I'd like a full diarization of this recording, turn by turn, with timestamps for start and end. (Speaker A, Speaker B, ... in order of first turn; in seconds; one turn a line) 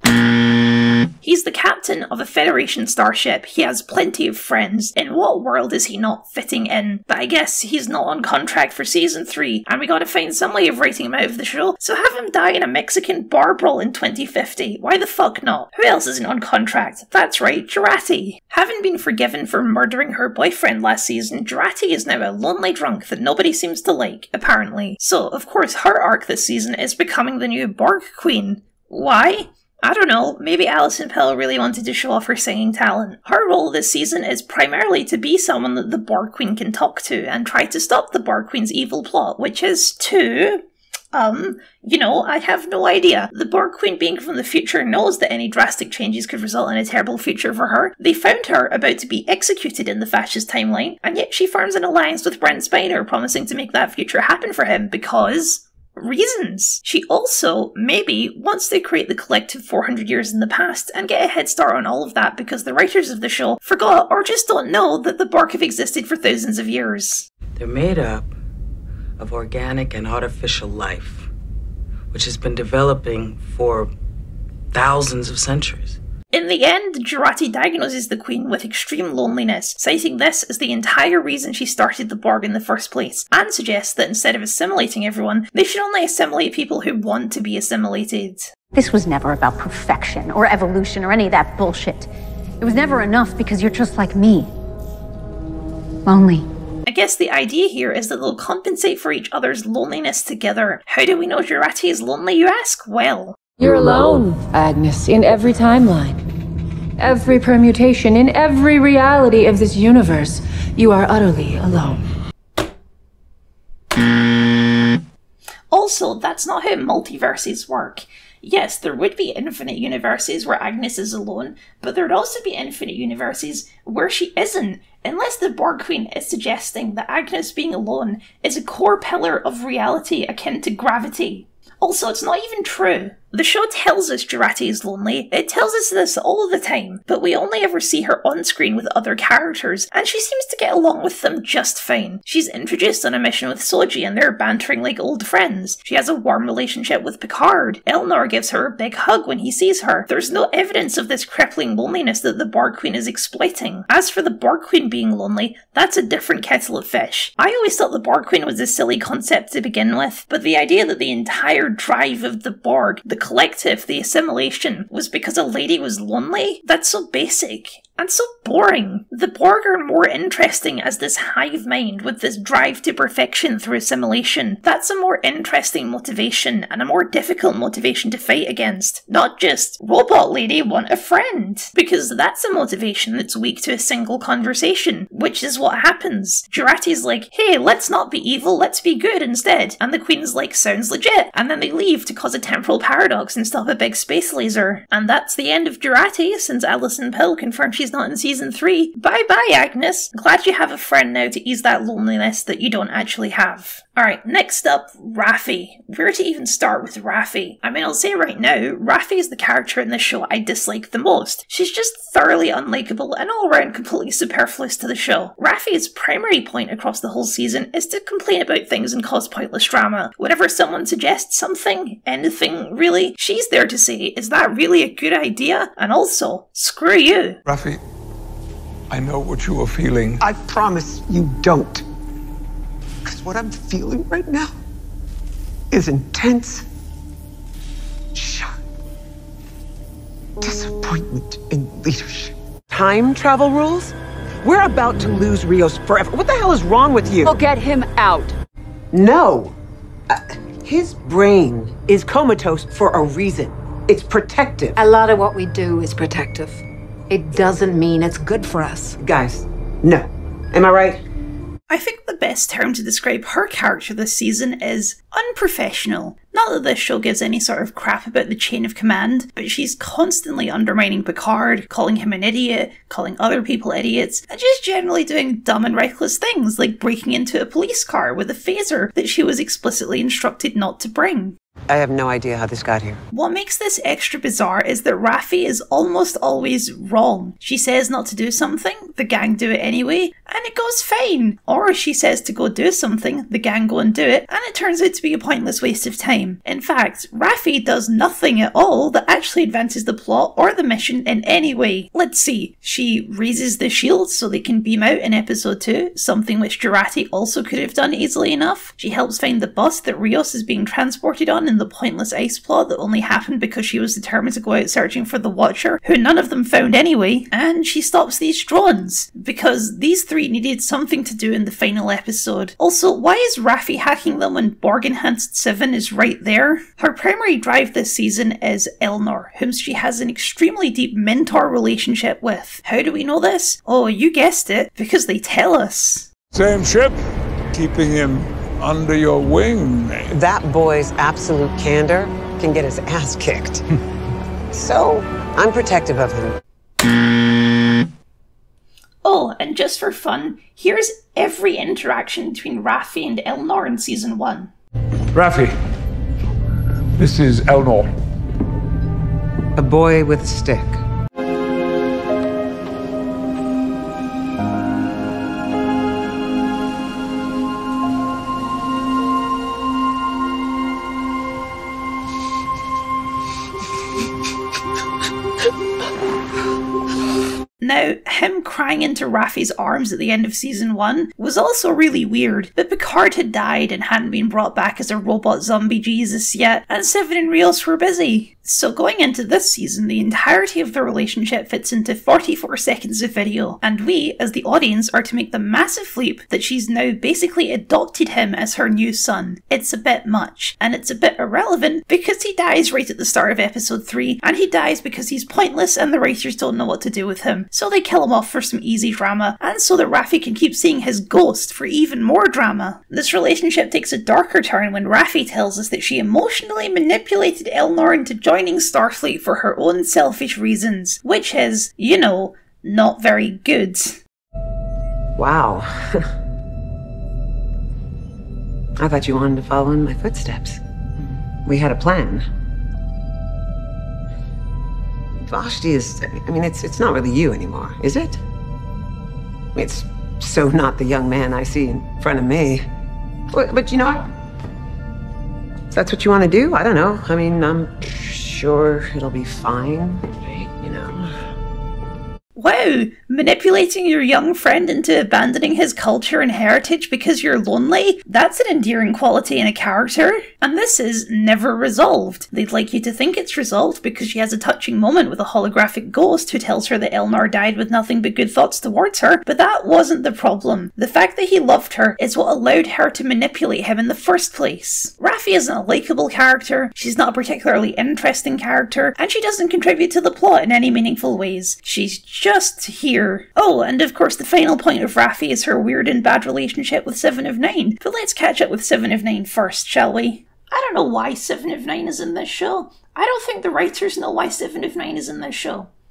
Speaker A: 1.2-67.2
Speaker B: 67.5-68.3
Speaker B: 69.2-71.3
Speaker B: 72.1-73.9
Speaker B: 74.7-76.0
Speaker A: 76.3-88.5
Speaker C: 88.7-92.1
Speaker C: 92.6-94.5
Speaker C: 96.0-96.5
Speaker A: 96.9-103.4
Speaker D: 103.6-106.2
Speaker D: 107.0-112.0
Speaker A: 115.7-227.4
Speaker E: 227.5-227.8
Speaker E: 228.9-230.2
Speaker F: 230.2-231.9
Speaker F: 233.0-234.5
Speaker F: 235.7-236.7
Speaker F: 238.1-238.5
Speaker F: 240.4-247.4
Speaker G: 247.2-248.3
Speaker F: 248.9-249.6
Speaker F: 250.1-254.8
Speaker G: 254.8-259.0
Speaker F: 259.0-261.0
Speaker A: 261.7-281.4
Speaker F: 281.7-283.0
Speaker A: 283.1-336.1
Speaker E: 336.3-337.0
Speaker E: 337.5-340.1
Speaker F: 340.1-343.6
Speaker F: 344.5-346.4
Speaker A: 349.0-354.5
Speaker E: 355.1-355.5
Speaker E: 357.0-357.9
Speaker F: 359.6-360.8
Speaker A: 377.6-424.0
Speaker F: 425.2-426.1
Speaker F: 428.8-430.6
Speaker F: 431.4-432.2
Speaker F: 435.2-438.2
Speaker F: 439.5-442.7
Speaker F: 443.3-444.1
Speaker F: 445.7-451.1
Speaker A: 452.4-495.7